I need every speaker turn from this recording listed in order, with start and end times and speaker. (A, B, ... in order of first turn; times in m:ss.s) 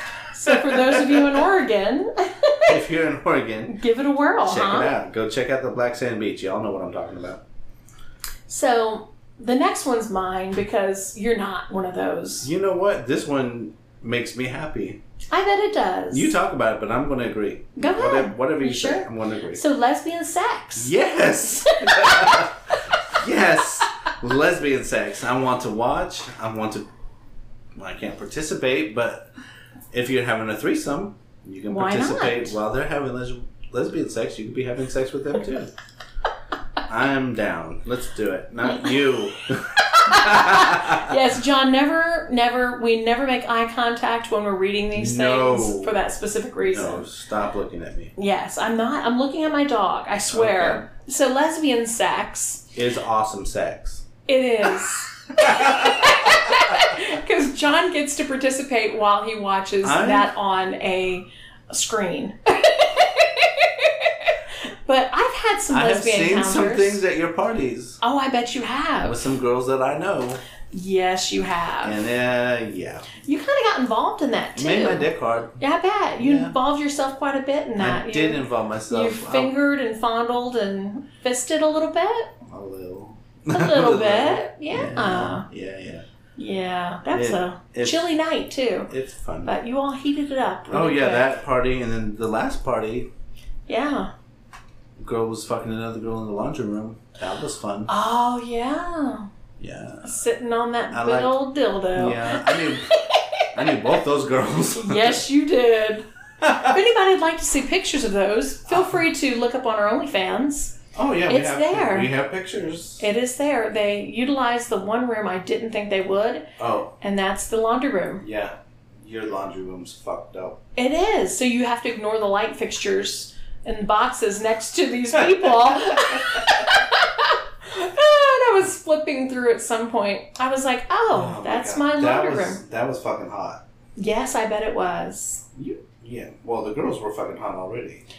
0:00.3-0:02.8 A
0:00.5-0:01.4 B
0:02.7-0:03.8 B
0:03.7-0:04.9 A
0:04.4-0:07.4 B
0:08.5-0:12.5 A
0:12.4-0:15.0 B
0:15.3-0:16.3 A
0:16.1-0:19.6 B
0:17.8-0:20.9 A
0:20.8-0:26.9 B
0:21.8-0:22.5 A
0:27.8-0:29.3 B
0:29.9-0:35.7 B
0:31.7-0:32.6 A
0:36.9-0:41.1 B
0:39.8-0:47.0 A
0:45.0-0:46.0 B
0:46.6-0:48.1 B
0:48.2-0:52.7 A
0:50.3-0:50.8 B
0:52.8-0:54.1 B
0:54.3-1:07.0 A
0:55.4-0:56.8 B
0:59.8-1:00.3 B
1:05.7-1:08.0 B
1:08.0-1:09.2 A
1:09.0-1:10.4 B
1:10.7-1:12.0 A
1:11.8-1:13.1 B
1:13.2-1:15.1 A
1:14.6-1:15.6 B
1:15.6-1:22.3 A
1:16.2-1:16.6 B
1:17.8-1:19.5 B
1:22.5-1:26.0 B
1:23.5-1:25.5 A
1:26.4-1:28.9 A
1:27.1-1:28.1 B
1:28.9-1:29.5 B
1:29.4-1:31.3 A
1:30.7-1:33.1 B
1:33.7-1:34.1 A
1:35.0-1:37.9 B
1:37.9-1:39.3 A
1:39.6-1:40.2 B
1:40.0-1:43.9 A
1:40.9-1:41.4 B
1:41.9-1:43.0 B
1:43.5-1:45.2 B
1:44.7-1:50.8 A
1:46.4-1:46.7 B
1:48.7-1:49.0 B
1:50.9-1:53.0 B
1:51.3-1:52.1 A
1:53.0-1:58.2 A
1:56.6-1:56.9 B
1:58.2-2:00.6 B
2:00.8-2:12.6 A
2:05.4-2:06.4 B
2:11.1-2:13.6 B
2:14.0-2:15.4 A
2:15.6-2:18.0 B